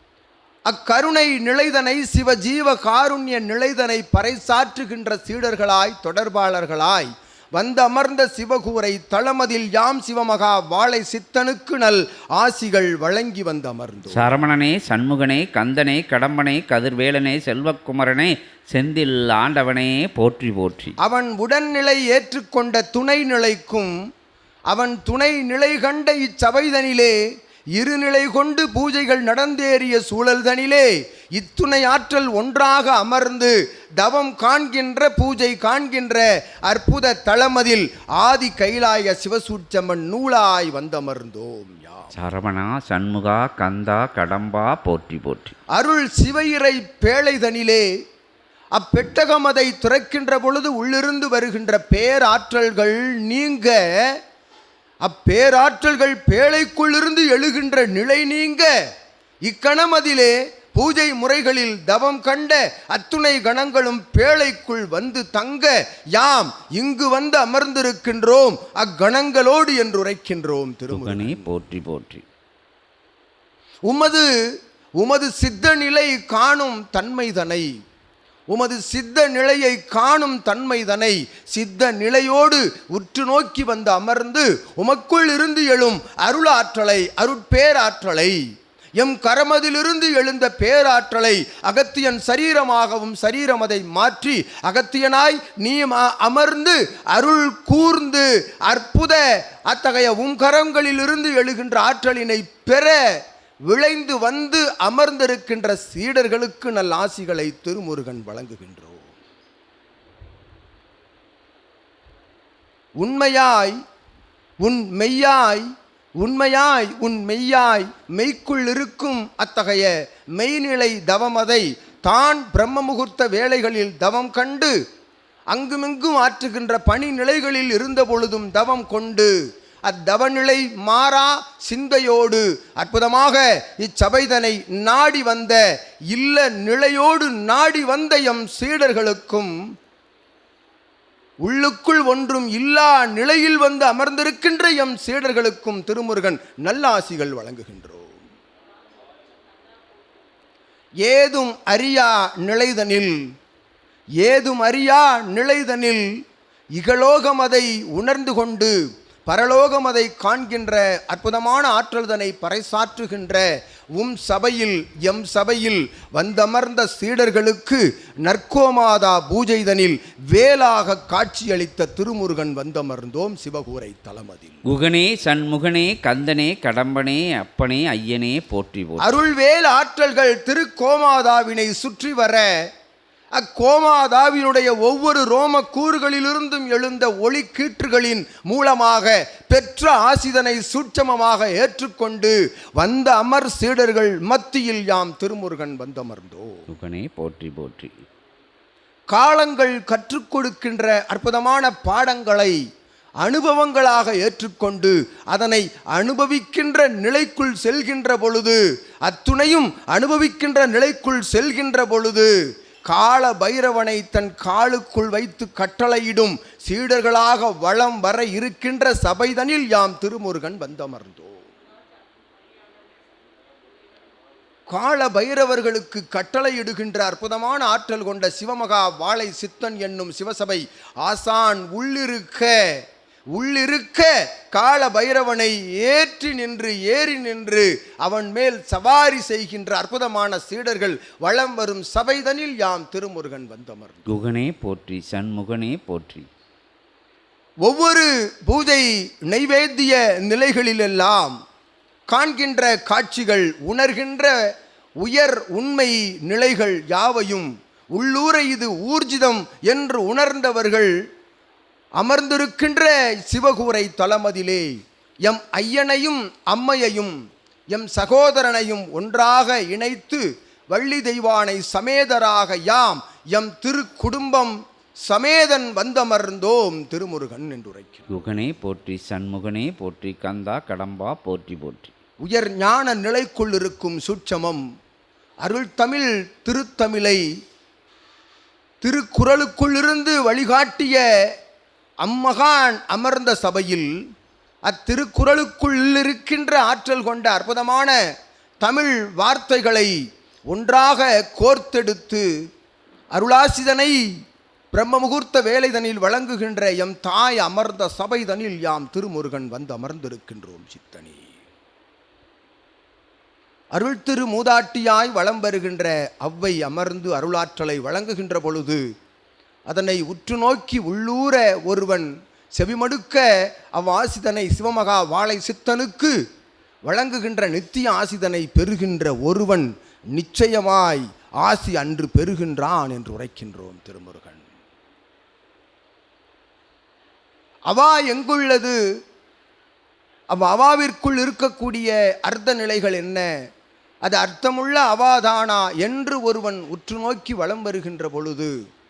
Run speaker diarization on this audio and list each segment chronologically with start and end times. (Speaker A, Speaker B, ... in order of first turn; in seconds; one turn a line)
Speaker A: 0.7-14.3
Speaker B: 14.1-20.9
Speaker A: 21.0-23.9
Speaker A: 24.7-27.1
Speaker A: 27.8-42.1
Speaker B: 42.1-45.5
Speaker A: 45.8-47.9
Speaker A: 48.8-54.2
Speaker A: 55.0-58.7
Speaker A: 59.4-71.5
Speaker B: 70.9-72.2
Speaker A: 73.9-74.2
Speaker A: 75.0-77.7
Speaker A: 78.5-88.4
Speaker A: 89.0-103.0
Speaker A: 103.7-109.0
Speaker A: 113.0-113.8
Speaker A: 114.6-115.6
Speaker A: 116.2-124.7
Speaker A: 125.5-129.3
Speaker A: 129.9-135.6
Speaker A: 136.1-139.5
Speaker A: 141.4-148.2
Speaker A: 151.0-153.2
Speaker A: 154.2-156.1
Speaker A: 156.8-158.7
Speaker A: 159.3-163.4
Speaker A: 164.0-174.6
Speaker B: 174.7-179.2
Speaker A: 179.0-182.5
Speaker A: 183.4-196.6
Speaker B: 196.7-197.9
Speaker A: 199.1-202.6
Speaker A: 203.2-212.3
Speaker A: 212.9-221.4
Speaker A: 224.7-232.8
Speaker A: 233.3-244.1
Speaker B: 244.1-246.3
Speaker A: 247.6-251.4
Speaker A: 252.1-254.3
Speaker A: 255.0-260.9
Speaker A: 262.0-264.7
Speaker A: 265.2-267.2
Speaker A: 267.7-274.5
Speaker A: 275.1-278.1
Speaker B: 278.1-281.9
Speaker A: 282.2-284.6
Speaker A: 285.4-287.2
Speaker A: 288.8-291.0
Speaker A: 292.0-293.9
Speaker A: 294.7-297.9
Speaker A: 298.6-299.9
Speaker A: 300.5-302.2
Speaker A: 303.1-304.0
Speaker A: 304.7-311.2
Speaker A: 313.7-318.8
Speaker A: 319.7-326.1
Speaker A: 326.9-334.4
Speaker A: 337.7-338.8
Speaker A: 340.3-343.3
Speaker A: 344.0-348.5